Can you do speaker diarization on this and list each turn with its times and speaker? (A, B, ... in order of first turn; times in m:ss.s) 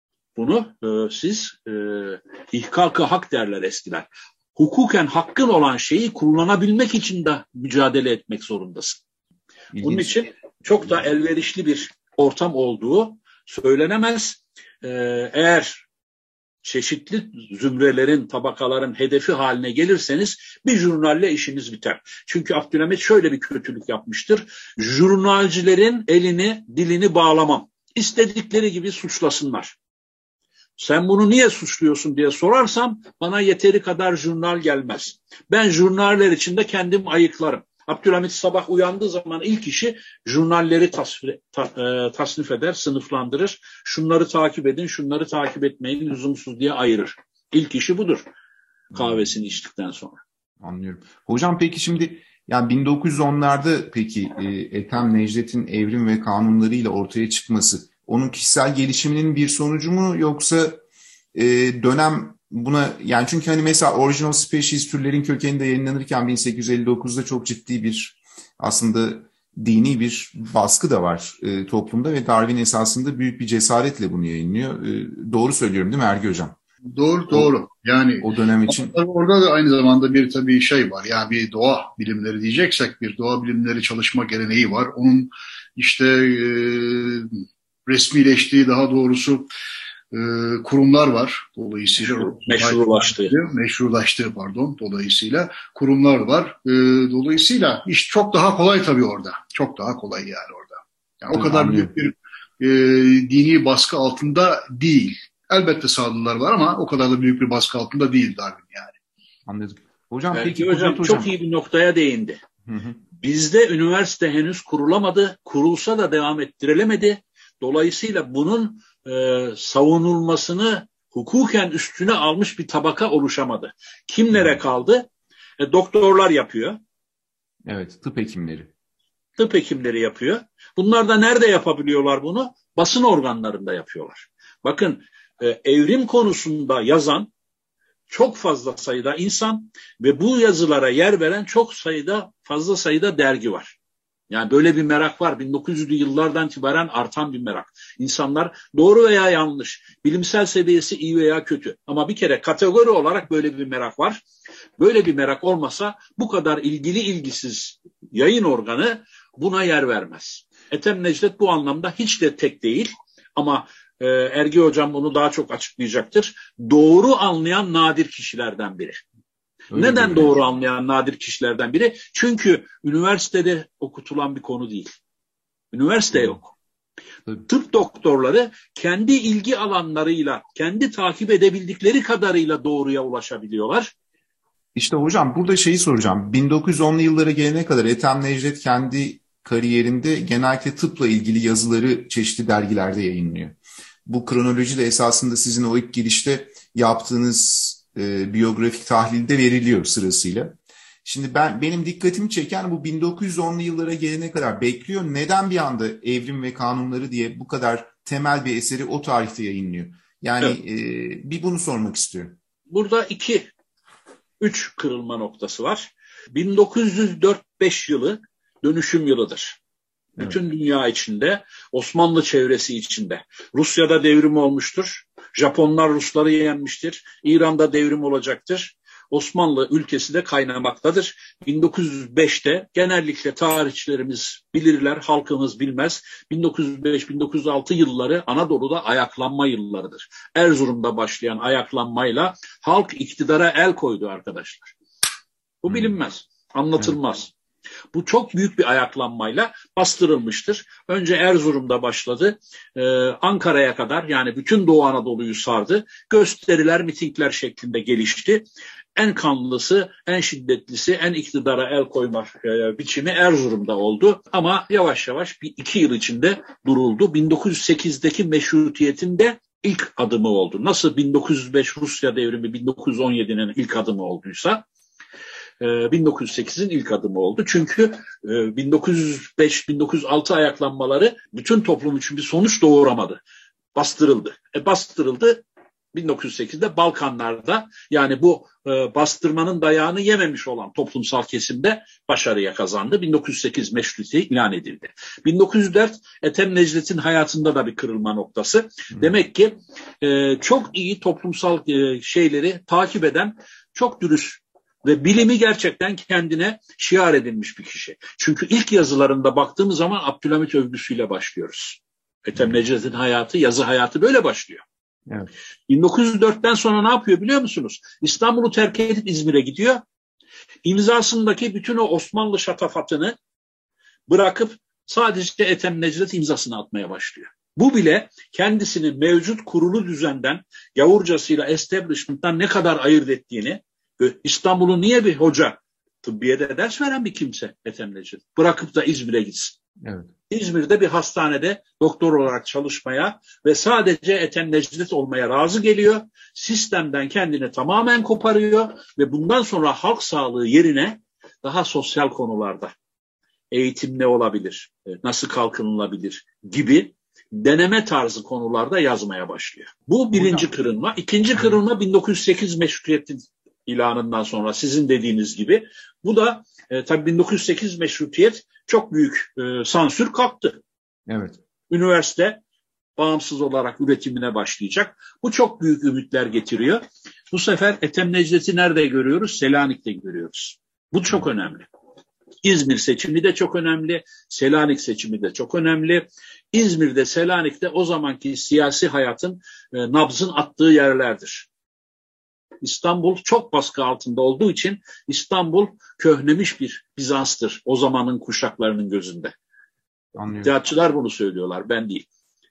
0:00.4-0:09.0 A
0:09.7-0:10.2 B
0:09.8-0:15.8 A
0:16.6-0:29.8 A
0:30.8-0:48.2 A
0:48.9-0:50.2 A
0:50.6-1:00.8 B
1:01.3-1:16.6 B
1:16.9-1:29.5 C
1:18.2-1:18.9 B
1:30.1-1:49.0 C
1:32.0-1:33.3 A
1:41.3-1:41.9 B
1:49.4-1:51.3 B
1:50.3-1:52.4 A
1:52.6-1:53.0 B
1:53.2-2:05.1 A
2:04.3-2:04.6 B
2:05.6-2:06.8 A
2:07.6-2:08.7 B
2:09.4-2:17.3 A
2:18.1-2:23.8 A
2:24.3-2:34.2 A
2:34.8-2:49.0 A
2:49.7-2:50.3 B
2:49.7-2:55.0 A
2:55.7-2:56.5 A
2:57.5-3:03.9 A
3:04.7-3:32.4 B
3:32.7-3:33.4 A
3:34.4-3:39.6 A
3:40.2-4:04.7 A
4:05.6-4:07.3 A
4:07.9-4:18.4 A
4:19.0-4:34.6 A
4:35.6-4:43.2 A
4:43.7-4:45.4 A
4:45.9-5:14.6 A
5:15.7-5:19.8 A
5:20.6-5:23.1 A
5:24.1-5:39.6 A
5:39.8-5:40.1 B
5:40.3-5:52.7 A
5:53.5-6:10.6 A
6:00.1-6:00.5 B
6:11.1-6:11.4 B
6:11.7-6:12.4 A
6:13.0-6:21.7 A
6:22.4-6:31.5 A
6:32.6-6:39.3 A
6:40.1-6:40.5 B
6:40.4-6:42.1 A